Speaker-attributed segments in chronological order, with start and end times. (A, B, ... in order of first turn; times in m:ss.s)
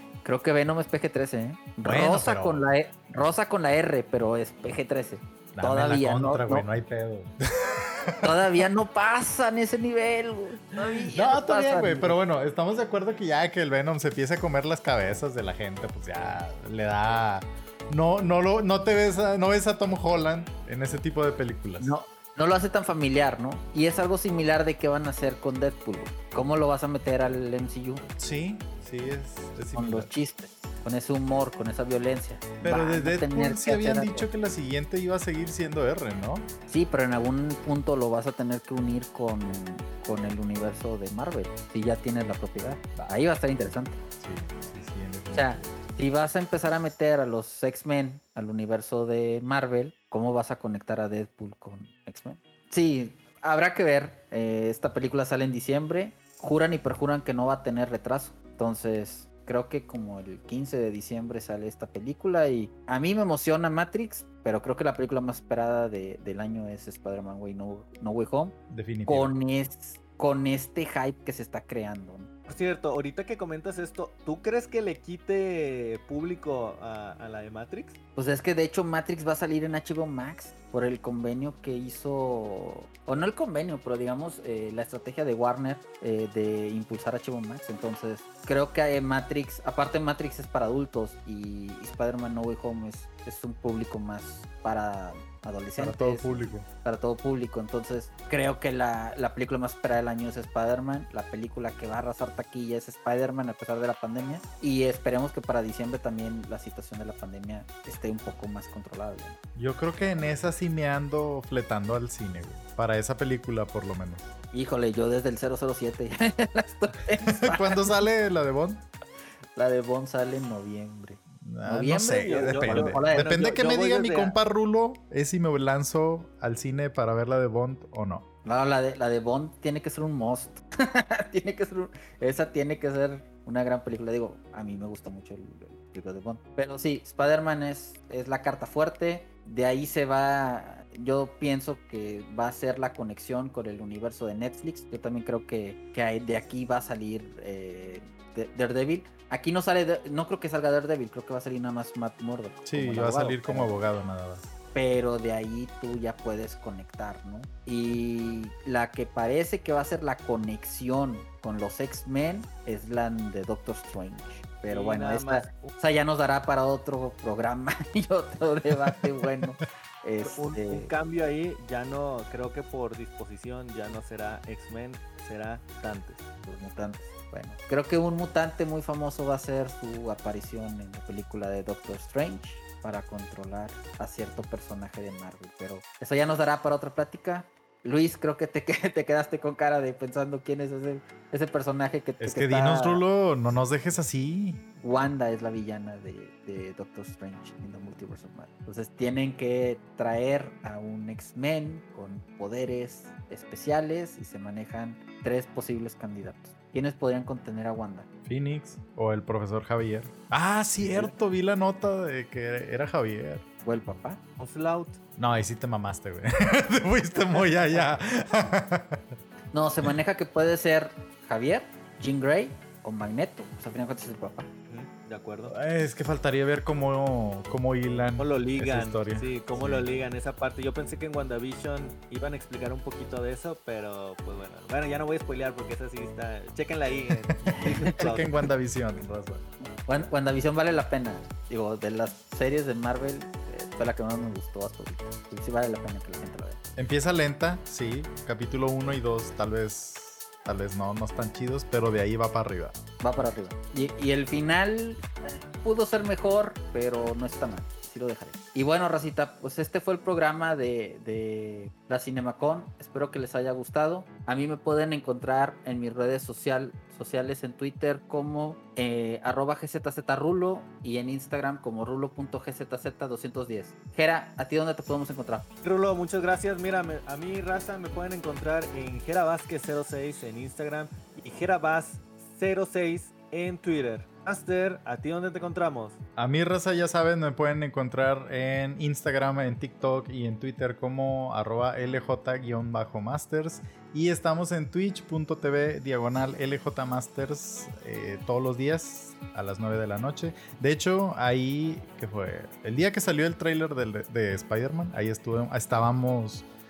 0:00.2-0:06.6 A
0:01.8-0:02.6 B
0:05.5-0:08.6 B
0:08.2-0:12.2 A
0:11.1-0:21.9 B
0:21.8-0:28.0 A
0:28.2-0:30.1 B
0:29.7-0:34.3 A
0:32.6-0:36.5 B
0:36.7-0:44.0 A
0:44.2-0:45.7 B
0:45.3-1:12.3 A
1:08.7-1:09.3 B
1:12.5-1:18.0 C
1:18.2-1:49.4 A
1:35.8-1:36.7 B
1:49.5-1:54.3 B
1:54.5-1:58.0 A
1:57.3-1:58.9 B
1:59.6-2:03.3 A
2:01.4-2:08.2 B
2:02.2-2:04.4 C
2:08.4-2:33.9 A
2:32.6-2:34.5 B
2:34.7-2:50.9 A
2:44.7-2:45.7 C
2:48.9-2:49.6 B
2:50.2-2:56.2 C
2:56.4-3:13.0 A
3:12.2-3:14.6 B
3:14.8-3:28.1 A
3:28.2-3:33.4 B
3:33.6-3:34.2 A
3:34.4-3:35.0 C
3:35.2-3:39.0 B
3:39.5-3:44.5 A
3:44.7-3:45.5 C
3:45.5-3:49.9 B
3:48.2-3:58.3 C
3:57.2-3:59.4 B
3:59.6-4:06.6 A
4:06.8-4:12.8 B
4:13.0-4:35.4 A
4:35.6-4:46.0 C
4:46.2-5:06.5 B